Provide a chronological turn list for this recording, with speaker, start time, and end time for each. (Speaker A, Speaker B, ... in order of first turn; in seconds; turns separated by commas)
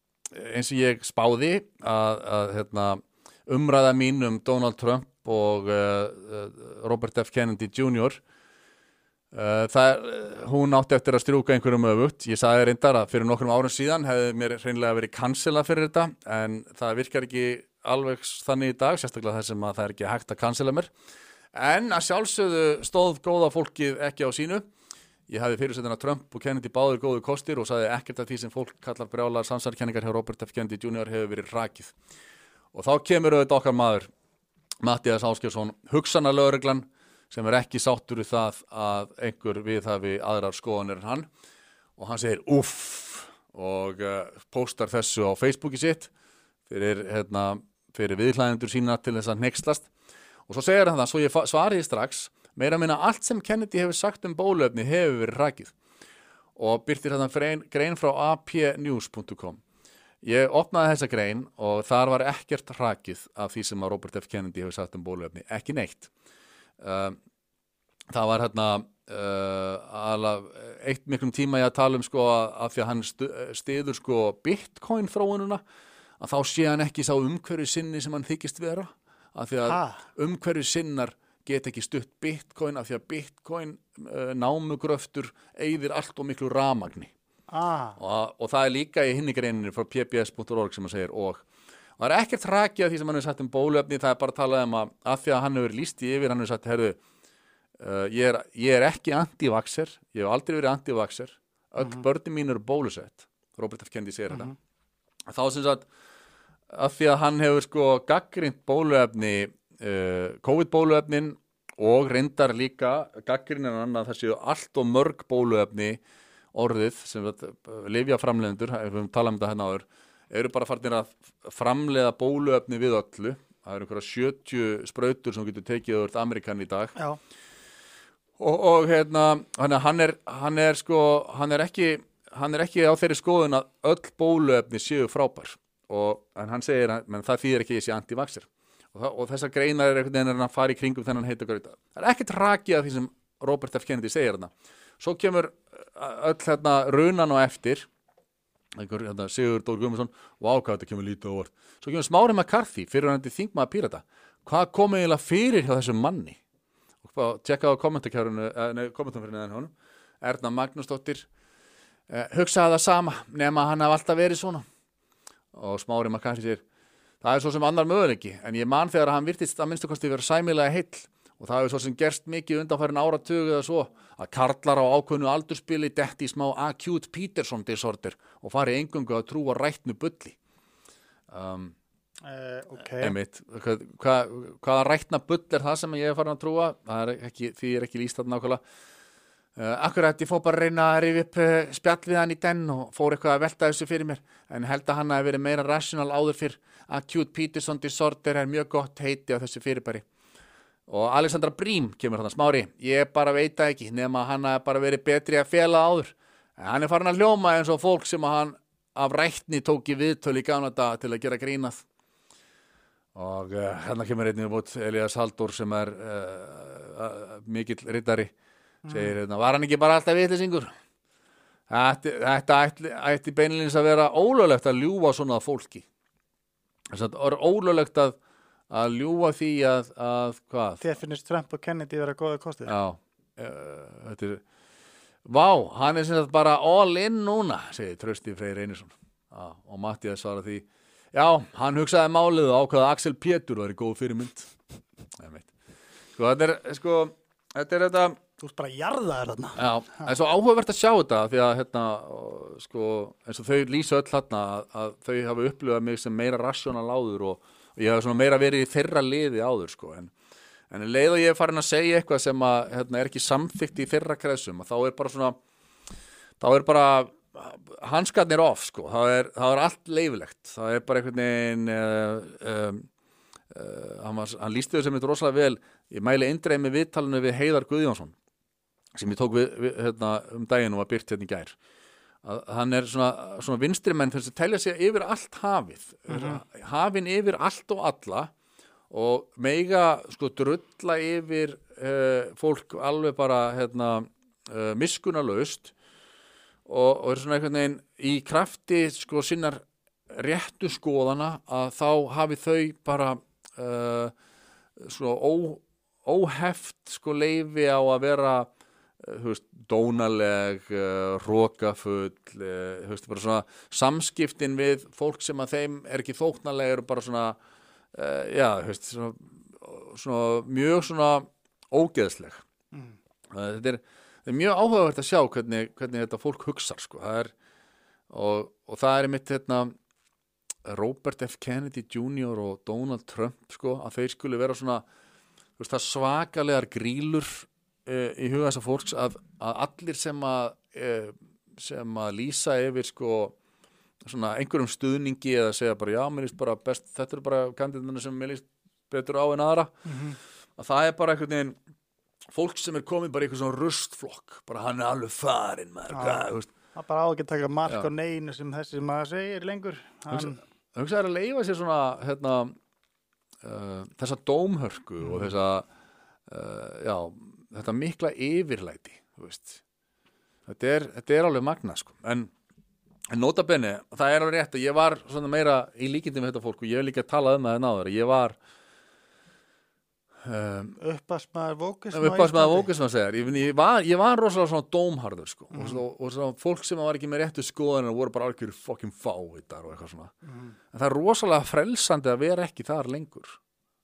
Speaker A: 0.3-8.2, Speaker A: 9.3-20.9, Speaker A: 21.5-24.6, Speaker A: 25.3-31.9, Speaker A: 32.7-34.1, Speaker A: 34.8-41.3, Speaker A: 42.0-46.1, Speaker A: 46.7-49.9, Speaker A: 50.5-55.7, Speaker A: 56.5-59.6, Speaker A: 60.2-66.1, Speaker A: 66.8-67.2, Speaker A: 68.1-75.6, Speaker A: 76.2-87.1, Speaker B: 79.7-80.0, Speaker B: 87.5-88.0, Speaker A: 88.0-91.5, Speaker A: 92.0-97.0, Speaker A: 97.8-104.5, Speaker A: 105.3-105.9, Speaker A: 106.7-116.0, Speaker A: 116.5-127.0, Speaker A: 128.4-147.9, Speaker A: 148.8-156.4, Speaker A: 157.0-161.3, Speaker A: 162.1-164.6, Speaker A: 165.5-166.6, Speaker A: 167.2-180.4, Speaker A: 181.3-181.8, Speaker B: 182.2-183.1, Speaker A: 183.0-188.6, Speaker A: 189.6-200.1, Speaker A: 200.9-211.8, Speaker A: 213.1-218.3, Speaker B: 218.8-219.1, Speaker A: 218.9-220.7, Speaker A: 221.7-225.9, Speaker A: 226.9-228.2, Speaker A: 228.7-230.8, Speaker B: 230.8-232.7, Speaker A: 232.7-234.4, Speaker A: 235.2-244.5, Speaker A: 245.2-245.5, Speaker A: 246.2-248.2, Speaker B: 248.4-249.6, Speaker A: 249.6-260.1, Speaker A: 260.7-265.4, Speaker A: 266.4-272.9, Speaker A: 273.5-278.1, Speaker A: 278.9-281.6, Speaker A: 282.2-288.3, Speaker B: 286.1-286.4, Speaker A: 288.9-295.7, Speaker A: 296.6-304.1, Speaker A: 304.8-308.5, Speaker A: 309.0-317.4, Speaker A: 317.9-322.4, Speaker A: 323.3-327.3, Speaker A: 328.1-329.7, Speaker A: 330.6-334.8, Speaker A: 335.6-343.4, Speaker A: 344.1-349.7, Speaker B: 349.9-350.2, Speaker A: 350.6-351.6, Speaker A: 352.3-356.5, Speaker B: 355.9-360.4, Speaker A: 360.1-362.5, Speaker A: 363.4-365.6, Speaker A: 366.3-369.6, Speaker A: 370.5-372.3, Speaker A: 373.1-378.4, Speaker A: 380.2-380.8, Speaker B: 380.8-382.7, Speaker A: 381.9-390.1, Speaker B: 385.5-385.8, Speaker A: 390.7-393.4